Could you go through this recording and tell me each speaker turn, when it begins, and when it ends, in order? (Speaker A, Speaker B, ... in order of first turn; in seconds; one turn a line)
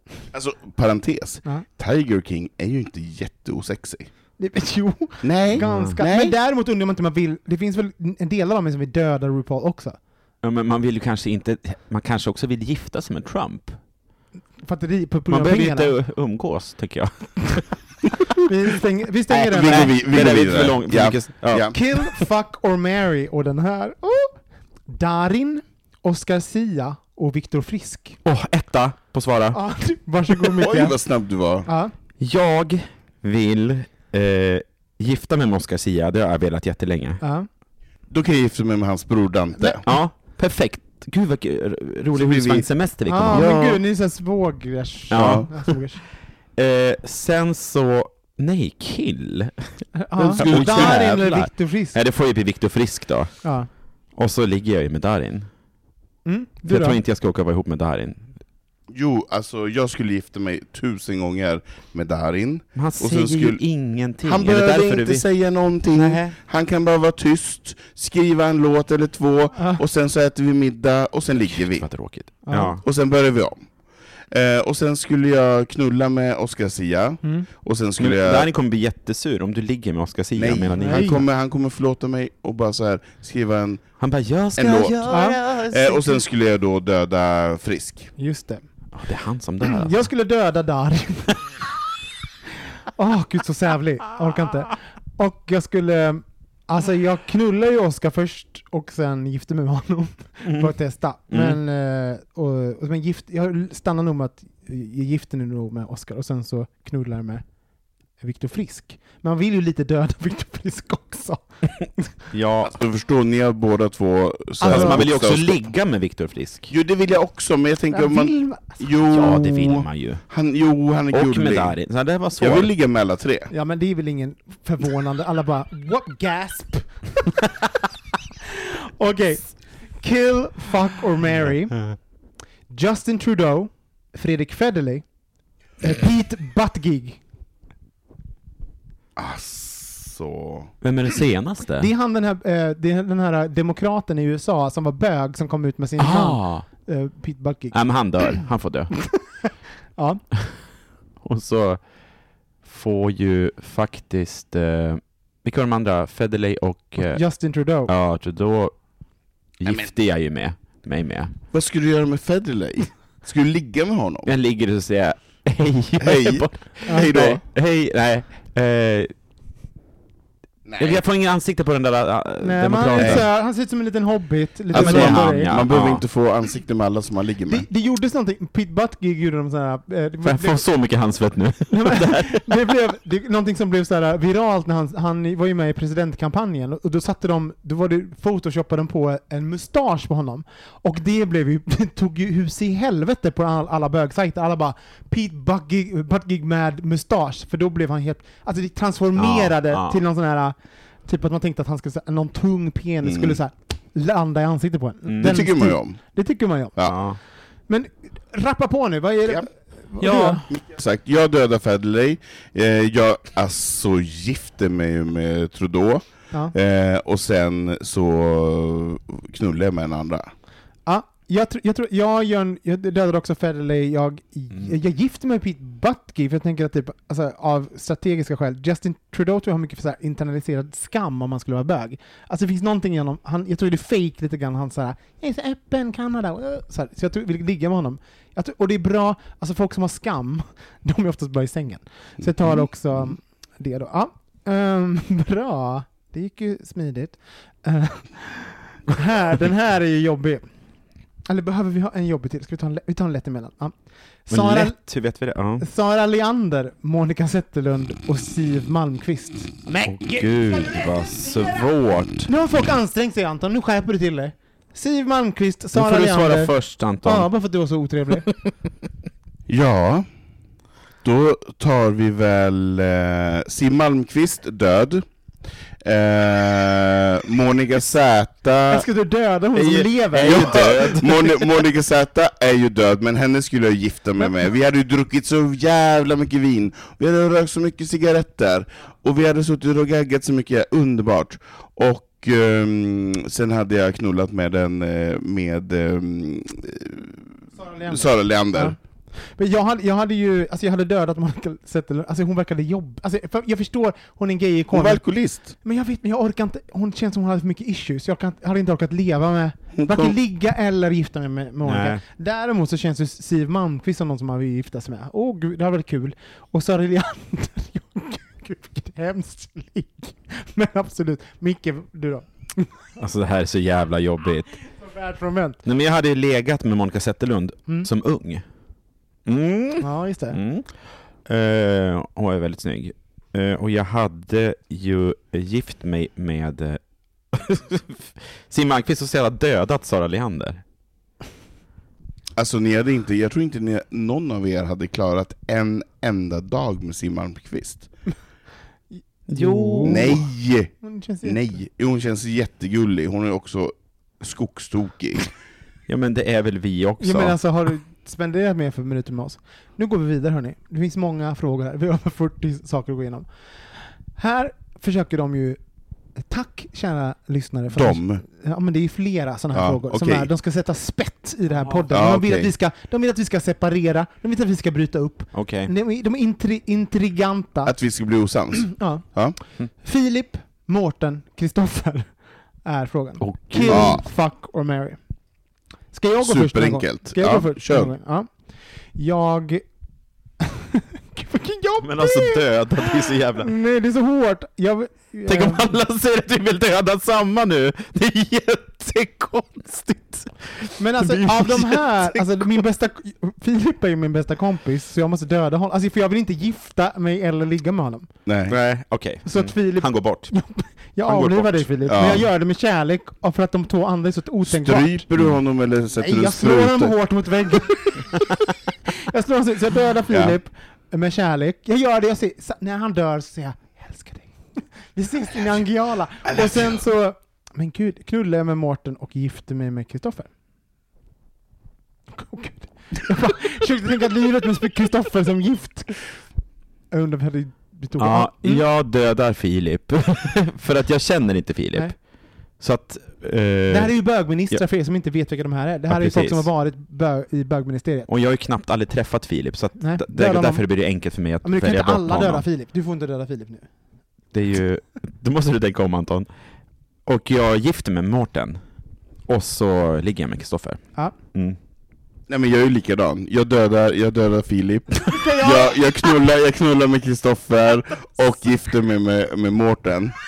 Speaker A: 0.3-4.1
Speaker B: 4.4-10.0
Speaker A: 5.2-6.4
Speaker C: 5.6-6.0
Speaker C: 10.4-13.8
Speaker B: 14.7-15.9
Speaker C: 15.3-17.8
Speaker B: 18.4-19.9
Speaker C: 19.3-21.8
Speaker A: 19.5-21.8
Speaker B: 21.7-24.4
Speaker B: 24.9-28.2
Speaker C: 28.2-29.6
Speaker B: 29.5-31.0
Speaker A: 30.6-31.7
Speaker B: 31.7-31.9
Speaker C: 32.2-37.2
Speaker B: 37.2-37.5
Speaker A: 38.1-39.8
Speaker C: 39.9-43.8
Speaker A: 42.1-42.7
Speaker B: 43.1-46.0
Speaker C: 45.1-45.8
Speaker A: 45.2-45.5
Speaker C: 46.6-53.5
Speaker B: 50.0-52.0
Speaker A: 50.2-51.3
Speaker C: 54.2-55.5
Speaker B: 56.2-57.0
Speaker C: 56.7-58.3
Speaker A: 58.9-63.6
Speaker C: 62.8-65.3
Speaker A: 64.2-71.9
Speaker C: 65.9-66.4
Speaker B: 69.6-69.8
Speaker C: 71.5-72.8
Speaker B: 72.5-72.8
Speaker A: 72.7-73.7
Speaker A: 74.3-78.5
Speaker C: 78.0-81.2
Speaker A: 80.4-84.0
Speaker B: 80.8-81.1
Speaker C: 84.0-86.2
Speaker A: 84.6-88.1
Speaker B: 85.1-85.4
Speaker B: 88.2-88.6
Speaker C: 88.9-90.1
Speaker B: 89.6-91.5
Speaker B: 93.0-107.4
Speaker C: 101.3-101.6
Speaker B: 108.2-112.1
Speaker C: 112.3-112.7
Speaker A: 112.6-115.7
Speaker B: 114.6-115.1
Speaker C: 114.7-116.7
Speaker A: 116.7-121.8
Speaker B: 117.9-118.8
Speaker C: 119.1-120.3
Speaker C: 121.1-122.7
Speaker A: 122.4-123.5
Speaker B: 123.5-127.3
Speaker B: 129.0-131.9
Speaker B: 132.7-135.1
Speaker B: 135.8-137.2
Speaker A: 139.2-140.7
Speaker C: 140.8-141.9
Speaker B: 141.8-147.8
Speaker C: 146.0-146.7
Speaker C: 147.7-149.1
Speaker B: 150.0-150.2
Speaker C: 151.2-151.8
Speaker C: 152.6-157.2
Speaker B: 157.0-157.9
Speaker C: 157.9-158.8
Speaker C: 159.6-161.3
Speaker A: 161.5-164.3
Speaker C: 164.3-169.1
Speaker A: 166.0-167.4
Speaker A: 170.7-171.0
Speaker C: 170.8-173.3
Speaker B: 172.4-175.6
Speaker A: 173.0-173.2
Speaker A: 174.7-177.7
Speaker C: 174.7-176.1
Speaker B: 177.5-180.7
Speaker C: 180.2-182.5
Speaker B: 181.7-206.8
Speaker C: 199.2-200.0
Speaker A: 203.0-203.4
Speaker C: 205.1-205.5
Speaker A: 205.2-206.0
Speaker C: 206.8-207.2
Speaker B: 207.7-210.4
Speaker C: 210.0-210.5
Speaker A: 210.5-220.3
Speaker B: 220.9-250.4
Speaker B: 251.3-253.7
Speaker B: 254.3-254.8
Speaker C: 254.3-255.7
Speaker B: 255.6-259.6
Speaker C: 259.8-262.3
Speaker B: 262.3-268.3
Speaker C: 265.7-267.3
Speaker A: 269.5-270.1
Speaker A: 271.0-275.1
Speaker A: 275.8-278.9
Speaker B: 278.7-281.0
Speaker C: 279.6-281.5
Speaker A: 280.2-298.8
Speaker B: 297.5-322.7
Speaker A: 304.7-305.5
Speaker A: 309.7-310.2
Speaker C: 311.6-312.0
Speaker C: 323.0-324.6
Speaker B: 324.8-325.6
Speaker C: 325.6-328.4
Speaker C: 329.3-330.7
Speaker B: 329.8-330.4
Speaker C: 331.2-336.8
Speaker C: 337.3-340.6
Speaker A: 342.4-347.9
Speaker C: 349.3-350.2
Speaker B: 349.4-350.2
Speaker A: 349.9-355.3
Speaker B: 350.8-351.6
Speaker C: 355.9-357.4
Speaker B: 357.0-363.3
Speaker B: 364.1-365.6
Speaker B: 366.2-377.7
Speaker A: 367.7-368.2
Speaker A: 369.5-370.3
Speaker A: 371.9-372.5
Speaker C: 375.3-375.7
Speaker A: 377.7-379.4
Speaker B: 378.6-379.1
Speaker B: 379.8-382.1
Speaker B: 382.6-385.0
Speaker C: 383.2-384.0
Speaker A: 383.7-384.0
Speaker B: 385.9-388.3
Speaker A: 386.2-387.9
Speaker B: 388.9-389.7
Speaker B: 390.4-395.8
Speaker C: 391.8-393.5
Speaker C: 395.3-402.5
Speaker B: 400.8-408.1
Speaker A: 408.3-408.6
Speaker C: 408.5-410.4
Speaker B: 409.3-415.1
Speaker C: 411.1-411.7
Speaker A: 411.9-412.3
Speaker A: 414.5-416.9
Speaker B: 416.0-418.5
Speaker B: 419.0-430.3
Speaker A: 420.1-420.4
Speaker B: 432.1-436.0
Speaker B: 436.9-438.6
Speaker C: 438.0-442.0
Speaker C: 442.6-444.6
Speaker B: 443.7-448.1
Speaker C: 445.9-446.5
Speaker C: 448.1-452.4
Speaker B: 449.8-450.7
Speaker B: 451.4-453.7
Speaker C: 454.3-456.3
Speaker C: 457.1-458.6
Speaker C: 459.3-461.6
Speaker A: 462.3-470.2
Speaker B: 465.0-465.8